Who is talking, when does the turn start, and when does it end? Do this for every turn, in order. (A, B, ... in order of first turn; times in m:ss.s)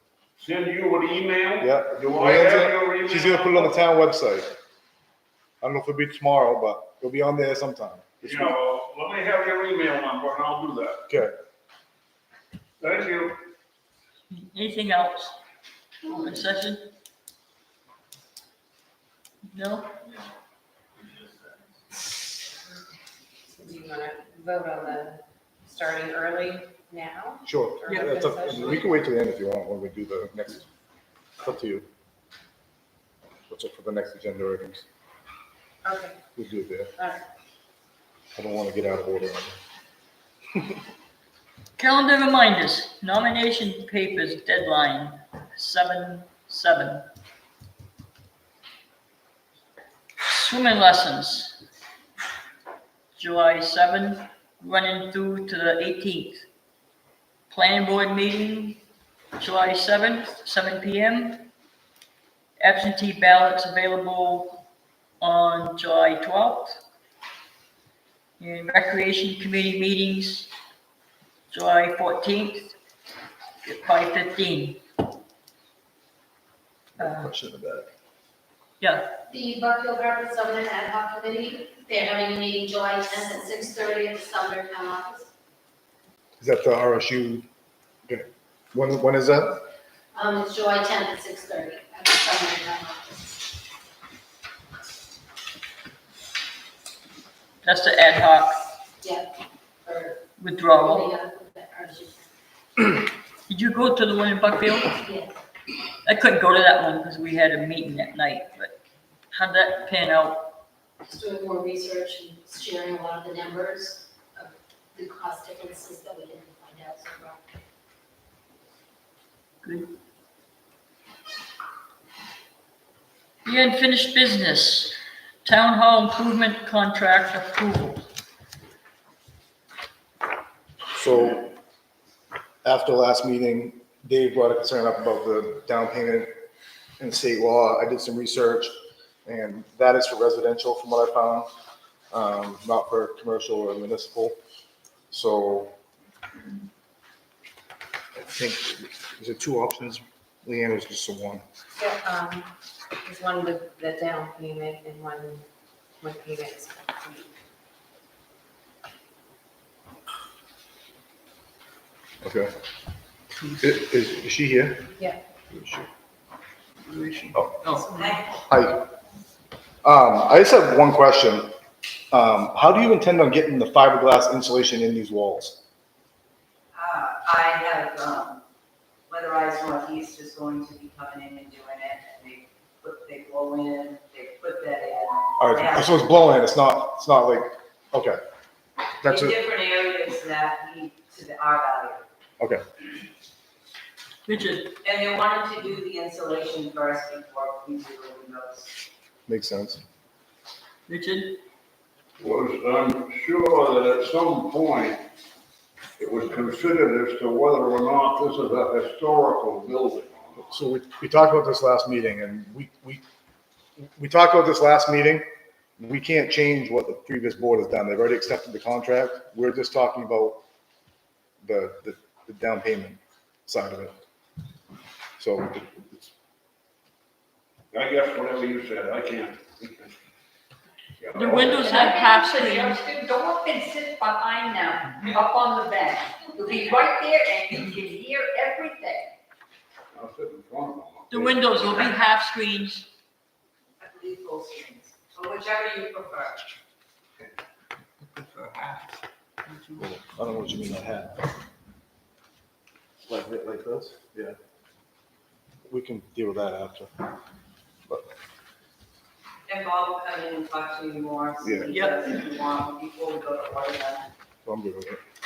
0:00.4-0:03.7 A
0:01.6-0:04.5 B
0:05.6-0:08.6 B
0:08.2-0:11.0 A
0:12.8-0:13.4 A
0:14.3-0:15.3 C
0:16.0-0:16.8 C
0:19.5-0:19.9 C
0:23.5-0:28.8 D
0:27.4-0:30.7 B
0:27.9-0:28.2 C
0:31.4-0:31.8 B
0:33.5-0:34.8 B
0:35.8-0:36.2 D
0:36.4-0:36.9 B
0:37.0-0:37.2 D
0:38.4-0:39.6 B
0:41.8-0:47.0 C
0:50.2-0:51.6 C
0:53.1-0:56.4 C
0:57.5-0:58.8 C
0:59.4-1:01.5 C
1:02.6-1:04.6 C
1:05.2-1:06.8 C
1:08.4-1:10.5 C
1:11.5-1:12.7 C
1:13.6-1:14.8 C
1:17.0-1:17.9 B
1:17.0-1:17.3 C
1:18.8-1:19.1 C
1:19.3-1:25.3 E
1:26.4-1:27.4 B
1:28.1-1:29.6 B
1:30.1-1:33.4 E
1:37.6-1:38.6 C
1:39.0-1:39.3 E
1:39.8-1:40.2 E
1:40.4-1:41.1 C
1:40.8-1:42.2 E
1:43.5-1:44.9 C
1:45.0-1:45.4 E
1:46.0-1:48.7 C
1:49.3-1:50.4 C
1:51.0-1:57.5 E
1:59.6-1:59.9 C
2:03.4-2:08.1 C
2:10.9-2:11.5 B
2:12.6-2:16.3 B
2:17.0-2:18.7 B
2:19.2-2:21.5 B
2:22.1-2:24.4 B
2:25.1-2:25.7 B
2:28.2-2:31.4 B
2:31.8-2:35.4 D
2:36.0-2:37.3 D
2:42.2-2:42.5 B
2:43.6-2:44.9 B
2:45.5-2:45.9 B
2:46.8-2:48.1 C
2:47.9-2:48.3 F
2:48.4-2:48.8 B
2:49.8-2:51.5 B
2:52.1-2:55.6 B
2:56.7-2:58.4 F
2:59.1-3:06.0 F
3:05.4-3:08.2 B
3:09.0-3:09.4 B
3:09.0-3:12.1 F
3:14.2-3:14.7 C
3:14.8-3:18.8 F
3:19.3-3:19.8 B
3:20.9-3:21.4 C
3:22.2-3:25.0 A
3:26.0-3:30.5 A
3:30.5-3:33.0 B
3:33.8-3:35.2 B
3:35.8-3:40.4 B
3:41.4-3:43.9 B
3:45.2-3:46.1 B
3:47.7-3:49.9 A
3:51.0-3:51.9 A
3:51.1-3:52.8 C
3:51.8-3:59.1 G
3:59.9-4:01.4 A
4:01.1-4:02.9 C
4:03.8-4:06.5 F
4:09.8-4:11.2 B
4:13.1-4:14.4 B
4:15.7-4:16.9 B
4:19.5-4:24.1 F
4:21.4-4:21.7 B
4:21.7-4:22.1 C
4:24.4-4:25.0 B